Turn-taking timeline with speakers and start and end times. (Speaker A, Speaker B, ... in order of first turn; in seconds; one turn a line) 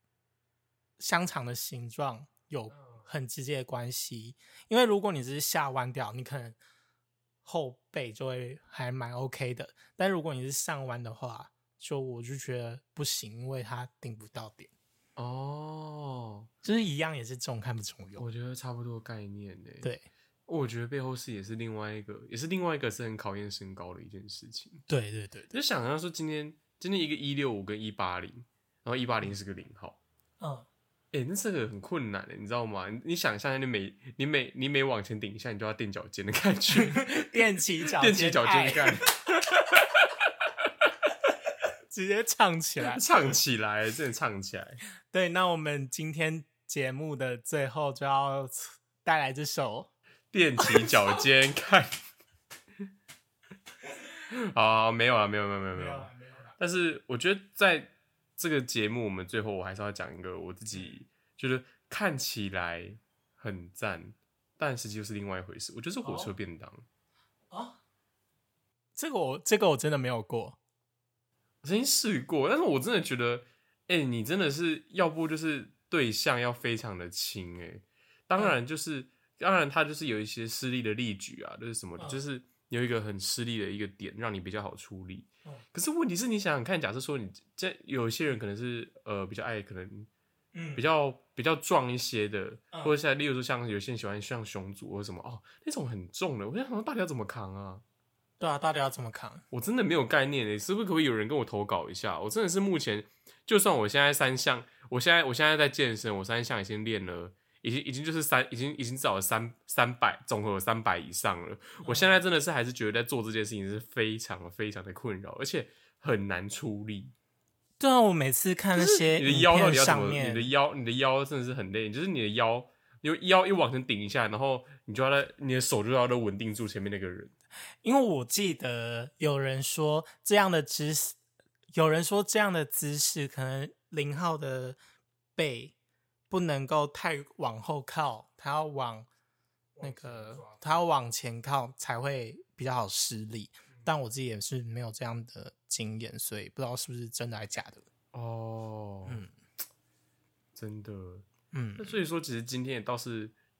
Speaker A: 1.0-6.6
Speaker B: 2.7-3.0
Speaker A: 7.4-14.7
Speaker B: 15.2-16.5
Speaker A: 16.6-18.2
Speaker B: 18.2-19.9
Speaker A: 19.8-20.1
Speaker B: 20.5-24.8
Speaker A: 24.9-25.5
Speaker B: 25.5-30.0
Speaker A: 30.4-30.6
Speaker B: 31.1-37.0
Speaker A: 36.7-39.0
Speaker B: 37.9-39.1
Speaker A: 41.9-43.0
Speaker B: 42.8-44.8
Speaker A: 45.1-49.9
Speaker B: 50.3-52.0
Speaker A: 50.6-51.0
Speaker B: 54.3-66.8
Speaker A: 55.7-56.5
Speaker A: 66.0-66.3
Speaker A: 67.5-67.8
Speaker A: 69.0-70.6
Speaker B: 71.6-90.1
Speaker A: 90.5-90.8
Speaker B: 90.8-97.8
Speaker A: 98.4-99.4
Speaker B: 99.5-117.1
Speaker A: 111.8-112.2
Speaker A: 117.8-120.5
Speaker B: 118.7-127.3
Speaker A: 127.8-131.2
Speaker A: 131.7-134.8
Speaker A: 135.4-135.7
Speaker A: 136.3-139.1
Speaker B: 139.8-140.8
Speaker A: 139.8-147.8
Speaker B: 148.1-149.2
Speaker A: 149.1-149.3
Speaker B: 150.5-151.2
Speaker A: 151.5-151.9
Speaker B: 151.8-153.3